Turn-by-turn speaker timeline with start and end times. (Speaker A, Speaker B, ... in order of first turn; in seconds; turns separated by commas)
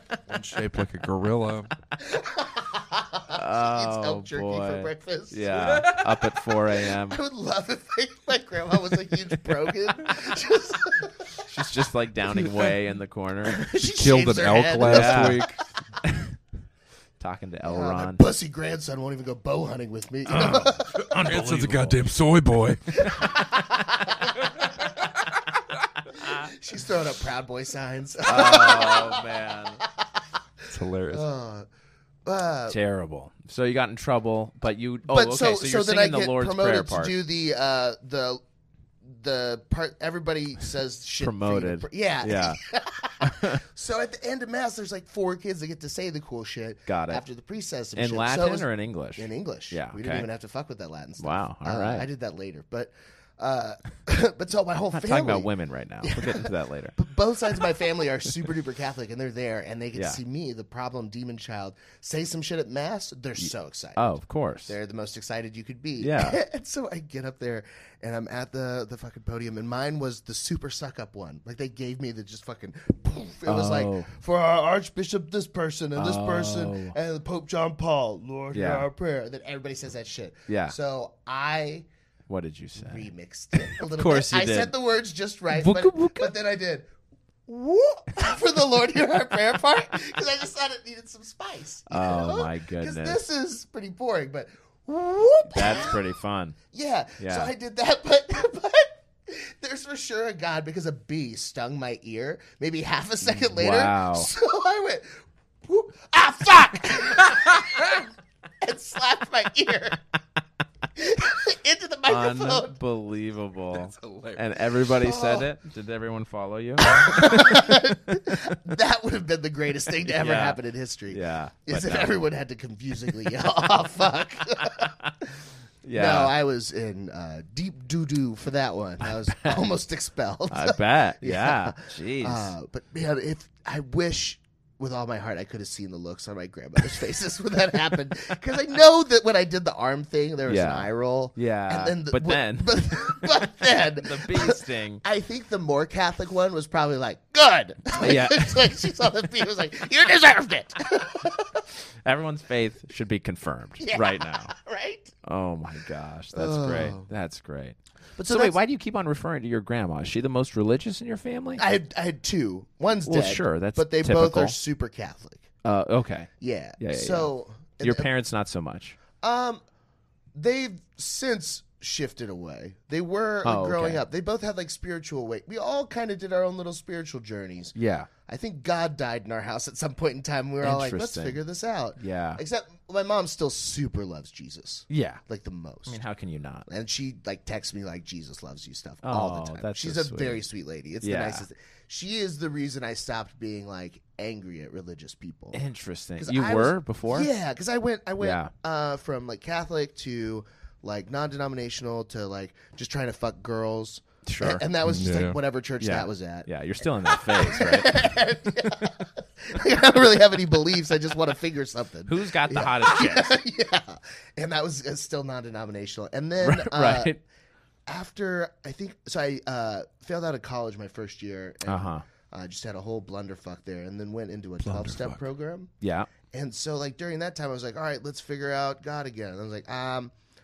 Speaker A: 0.3-1.7, Speaker B: 2.0-6.0, Speaker C: 3.3-7.2, Speaker B: 6.7-11.5, Speaker C: 11.4-13.6, Speaker B: 12.3-12.8, Speaker B: 13.4-15.4, Speaker A: 13.7-15.6, Speaker C: 14.8-15.5, Speaker C: 17.2-18.2, Speaker B: 17.6-21.2, Speaker C: 20.3-22.0, Speaker A: 21.0-23.2, Speaker B: 23.1-24.4, Speaker B: 26.2-29.2, Speaker C: 28.2-29.8, Speaker B: 29.8-30.2, Speaker A: 30.7-31.2, Speaker B: 31.1-31.7, Speaker B: 32.2-32.8, Speaker C: 32.7-37.1, Speaker B: 35.0-38.4, Speaker B: 39.0-55.5, Speaker C: 41.2-42.6, Speaker C: 43.2-43.6, Speaker C: 46.9-47.2, Speaker C: 47.9-50.3, Speaker C: 51.2-52.1, Speaker C: 54.9-57.0, Speaker B: 56.0-64.0, Speaker C: 59.9-60.2, Speaker C: 63.4-64.7, Speaker B: 64.7-81.9, Speaker C: 66.0-66.4, Speaker C: 73.5-74.1, Speaker C: 76.0-76.9, Speaker C: 78.5-78.9, Speaker C: 80.5-80.7, Speaker C: 82.3-84.7, Speaker B: 82.8-86.9, Speaker C: 85.5-86.3, Speaker B: 87.5-96.0, Speaker C: 91.9-93.2, Speaker C: 95.5-96.6, Speaker B: 96.7-108.0, Speaker C: 97.2-97.5, Speaker C: 103.5-104.3, Speaker B: 108.6-110.0, Speaker B: 110.9-112.8, Speaker C: 112.1-117.6, Speaker A: 113.8-114.4, Speaker B: 114.9-115.5, Speaker B: 116.8-125.2, Speaker C: 120.0-120.6, Speaker C: 121.1-122.2, Speaker C: 124.7-125.1, Speaker C: 125.8-126.3, Speaker B: 125.9-151.7, Speaker C: 129.2-129.6, Speaker C: 130.5-132.5, Speaker C: 140.5-142.7, Speaker C: 143.9-145.0, Speaker C: 148.0-148.6, Speaker C: 152.0-154.5, Speaker B: 153.8-155.1, Speaker C: 155.2-161.6, Speaker B: 156.3-157.1, Speaker B: 158.2-158.6, Speaker B: 161.6-165.5, Speaker C: 163.1-164.6, Speaker C: 165.6-169.0, Speaker B: 166.4-168.1, Speaker B: 169.2-169.6, Speaker B: 170.3-177.7, Speaker C: 173.4-174.0, Speaker C: 177.7-178.1, Speaker B: 178.2-186.0, Speaker C: 180.6-181.4, Speaker C: 182.0-182.4, Speaker C: 184.9-185.2, Speaker C: 185.8-186.7, Speaker B: 186.7-195.6, Speaker C: 189.0-190.4, Speaker C: 191.0-191.4, Speaker C: 195.5-197.3, Speaker B: 196.2-217.1, Speaker C: 198.2-198.5, Speaker C: 204.2-204.7, Speaker A: 204.8-205.4, Speaker C: 205.8-207.9, Speaker C: 212.1-213.3, Speaker C: 216.4-217.2, Speaker B: 217.9-225.7, Speaker C: 221.7-222.0, Speaker A: 224.6-225.2, Speaker C: 225.8-226.1, Speaker B: 226.3-230.1